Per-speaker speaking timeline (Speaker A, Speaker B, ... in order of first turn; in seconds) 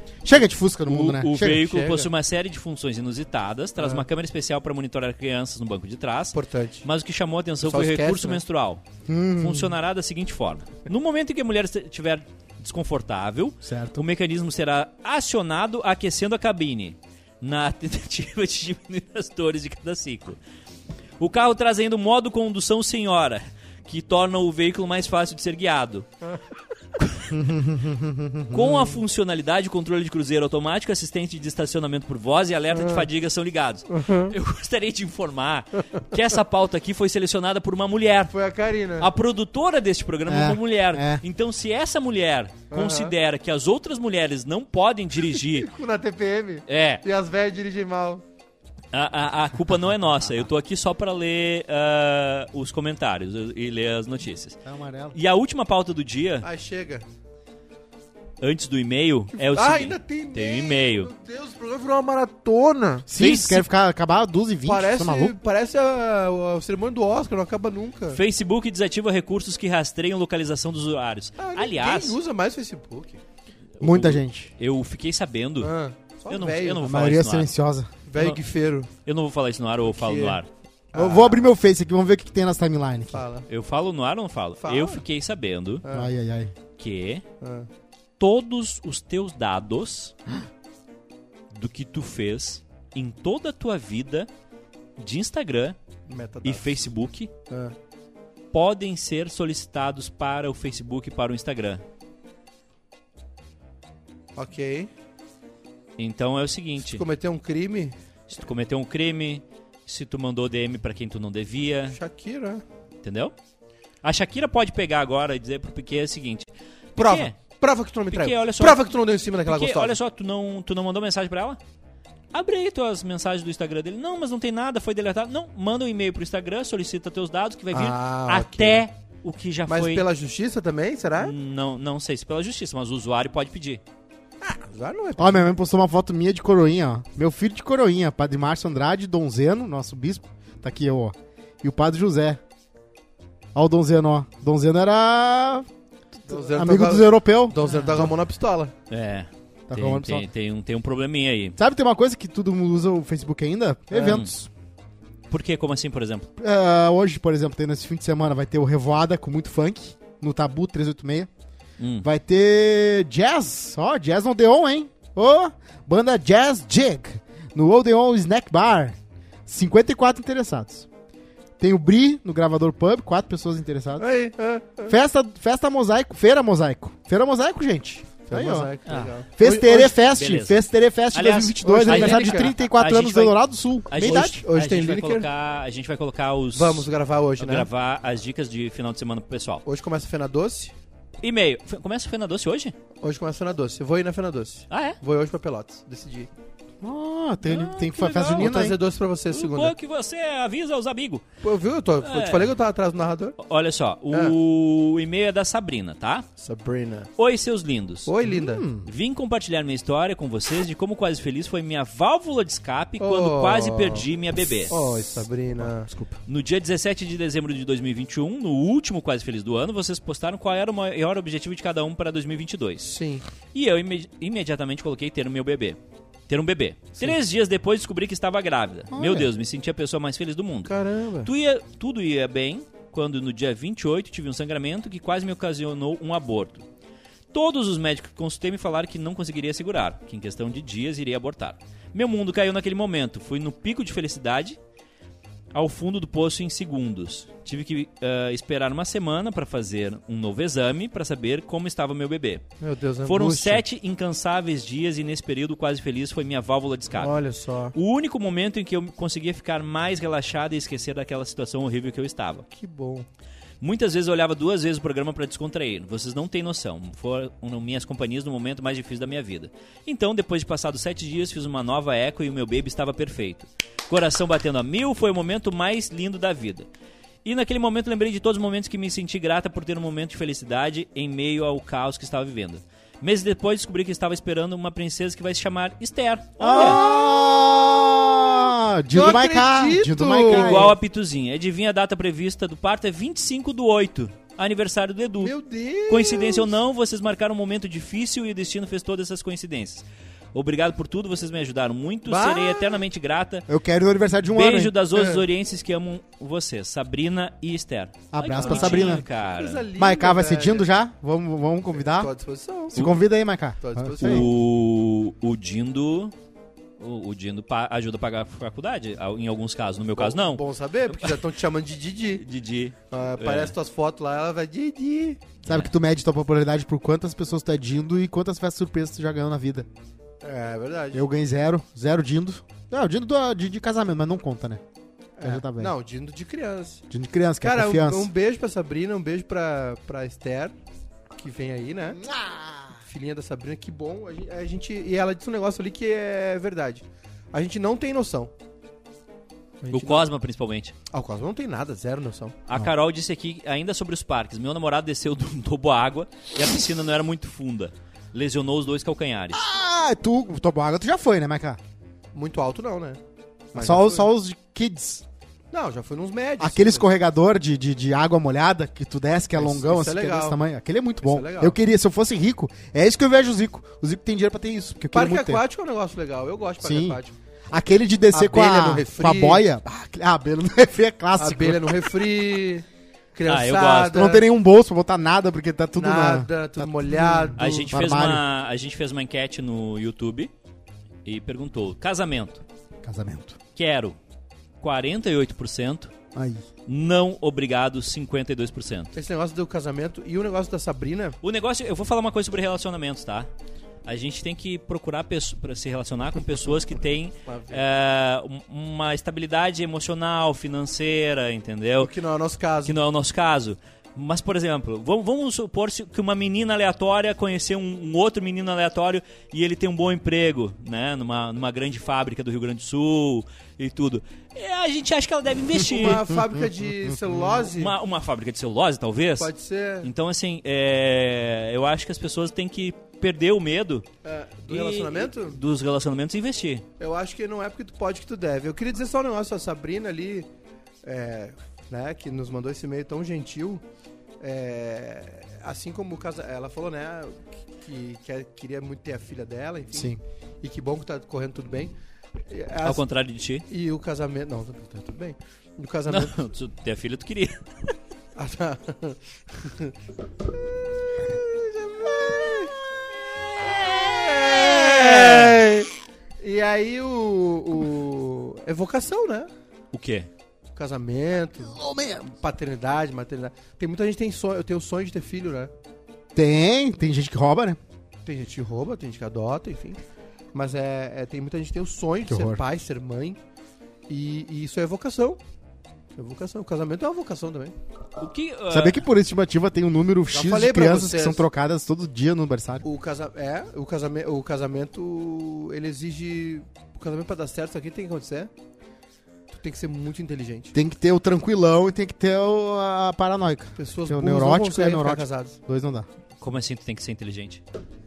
Speaker A: 0.2-1.6, 9.1-9.8, 13.6-14.0, 27.3-28.7, 40.3-41.2, 54.6-55.2, 63.1-65.4, 73.8-74.5, 76.8-77.9, 80.9-83.2, 85.9-86.5, 135.2-142.4, 143.6-145.7, 146.3-148.0, 149.7-150.3, 151.6-154.5, 156.4-161.3, 162.0-170.9, 171.6-174.1, 174.9-178.7, 179.4-184.4, 196.8-198.8, 208.2-208.9, 228.9-229.3, 286.4-290.7, 303.5-304.7, 308.1-309.1, 309.8-312.1, 312.7-314.3, 325.5-329.7, 330.9-334.6, 335.2-335.7, 336.9-338.1, 341.9-342.8, 359.3-361.6, 363.5-365.0, 366.4-375.4, 376.6-377.0, 377.5-381.9, 383.9-388.2, 392.8-393.4, 396.1-396.4, 449.7-450.0, 471.4-472.1, 476.1-477.6, 482.1-482.4, 488.5-492.6, 500.6-505.9
Speaker B: 0.9-8.8, 9.4-20.4, 21.2-26.1, 27.0-27.7, 28.5-38.3, 39.0-45.7, 46.7-47.0, 48.9-54.6, 55.1-56.5, 58.4-61.1, 63.1-63.7, 68.1-72.2, 73.8-75.7, 76.3-77.5, 79.0-80.5, 83.5-85.8, 86.8-87.2, 88.2-90.1, 91.5-94.3, 95.0-95.8, 96.4-97.3, 98.5-101.8, 106.0-107.0, 108.3-112.0, 113.0-113.3, 114.0-117.3, 118.1-118.8, 119.5-121.6, 122.3-130.1, 131.2-133.8, 148.9-151.6, 154.0-154.3, 155.3-156.3, 161.8-162.1, 178.9-179.2, 180.1-180.6, 181.1-183.4, 183.9-186.9, 187.4-189.6, 191.2-192.8, 194.7-195.0, 197.4-198.5, 199.3-201.2, 202.0-202.5, 203.4-206.3, 207.2-208.1, 208.8-214.8, 216.3-222.9, 223.5-225.8, 226.3-230.7, 231.2-236.7, 237.3-244.6, 245.5-252.4, 253.1-257.2, 257.7-262.5, 263.6-276.7, 277.2-286.8, 290.3-295.4, 295.9-303.5, 304.3-309.6, 314.0-316.1, 316.8-321.1, 322.2-323.5, 325.4-325.7, 349.7-350.7, 352.5-359.4, 383.3-384.0, 387.4-390.3, 391.1-392.4, 393.6-394.0, 394.6-395.9, 396.7-398.9, 401.2-403.3, 403.9-411.9, 412.6-426.1, 427.4-429.3, 429.8-433.9, 434.5-436.6, 452.6-453.4, 455.9-457.7, 464.5-465.4, 469.7-470.1, 488.0-488.9, 506.2-507.4
Speaker C: 1.5-2.1, 3.8-4.1, 6.3-6.8, 7.6-8.4, 32.7-33.1, 33.9-34.3, 38.3-39.1, 42.7-43.1, 45.4-48.2, 56.4-57.0, 59.4-63.1, 64.7-68.2, 71.4-73.2, 75.6-76.8, 78.1-78.9, 79.9-80.4, 80.9-81.5, 83.1-83.5, 84.6-85.0, 85.8-86.1, 87.4-87.7, 96.1-96.9, 97.5-97.8, 104.4-104.9, 106.8-108.0, 111.9-112.6, 117.0-120.0, 127.7-128.8, 129.7-131.3, 134.4-135.4, 146.3-148.7, 153.9-154.2, 174.0-175.0, 178.3-180.0, 181.6-182.5, 184.0-185.3, 186.6-187.7, 189.7-190.7, 193.0-196.3, 198.4-199.7, 201.4-203.4, 206.4-207.1, 208.1-208.7, 213.0-214.1, 214.7-216.1, 222.8-223.2, 230.7-231.3, 252.6-253.6, 256.9-257.8, 262.5-263.1, 286.5-288.1, 288.9-290.8, 295.2-296.6, 302.1-302.8, 304.9-305.2, 308.2-310.7, 311.9-312.8, 313.6-314.3, 320.0-322.2, 322.9-325.3, 330.2-331.0, 335.2-336.8, 337.4-340.5, 341.2-342.0, 342.9-348.3, 349.6-350.1, 350.9-352.4, 362.1-363.0, 363.5-364.1, 365.5-366.9, 369.4-370.4, 371.0-371.6, 374.9-377.1, 378.1-379.4, 381.2-384.2, 385.8-387.7, 398.9-401.2, 407.3-407.6, 411.8-412.8, 425.6-427.8, 429.2-429.9, 434.0-435.4, 436.8-440.3, 440.8-443.6, 444.2-451.7, 452.3-452.8, 453.5-456.2, 458.2-459.7, 461.0-462.6, 463.6-469.3, 470.6-471.6, 472.1-475.5, 478.1-479.8, 480.3-483.2, 483.9-485.2, 486.0-487.5, 490.1-491.2, 492.6-498.3, 499.3-500.6, 503.6-505.4